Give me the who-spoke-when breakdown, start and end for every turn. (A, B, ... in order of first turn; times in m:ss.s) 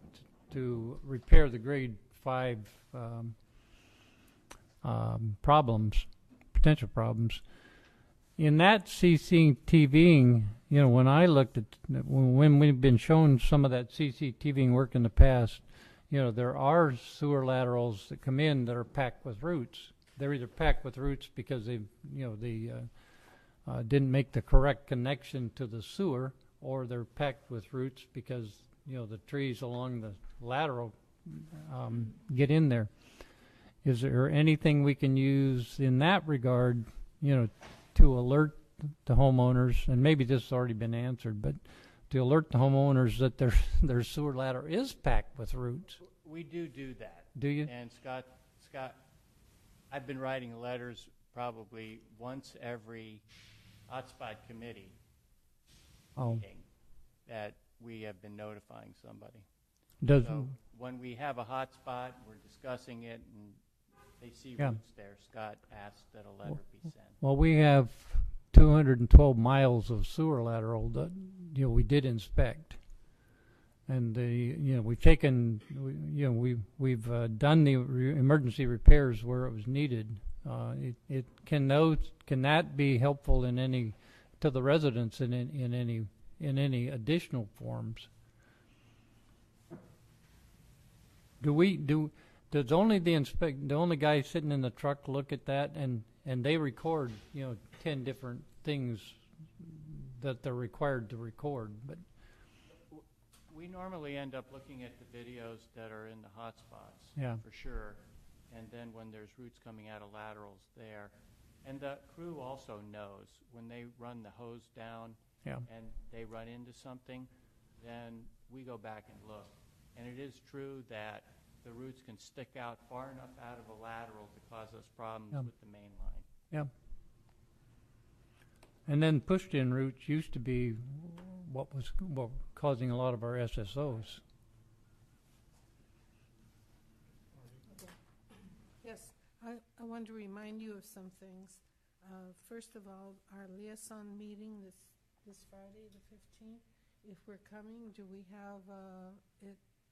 0:00.2-0:03.4 A
0:04.8-0:07.4 A
0:08.4-0:23.1 A
0:23.6-0:32.9 A
0:33.8-0:46.0 A
0:46.0-0:49.0 B
0:47.4-0:47.7 A
0:49.9-0:53.2 B
0:53.9-0:55.0 B
0:56.2-0:56.4 A
0:56.2-0:56.7 B
0:57.3-0:59.5 B
1:00.0-1:00.5 A
1:00.1-1:03.6 B
1:04.2-1:07.2 B
1:07.2-1:12.8 A
1:13.9-1:28.1 A
1:31.4-1:42.0 A
1:42.9-2:06.3 B
1:47.2-1:47.4 A
2:08.9-2:14.2 A
2:17.7-2:18.0 C
2:18.8-2:29.6 C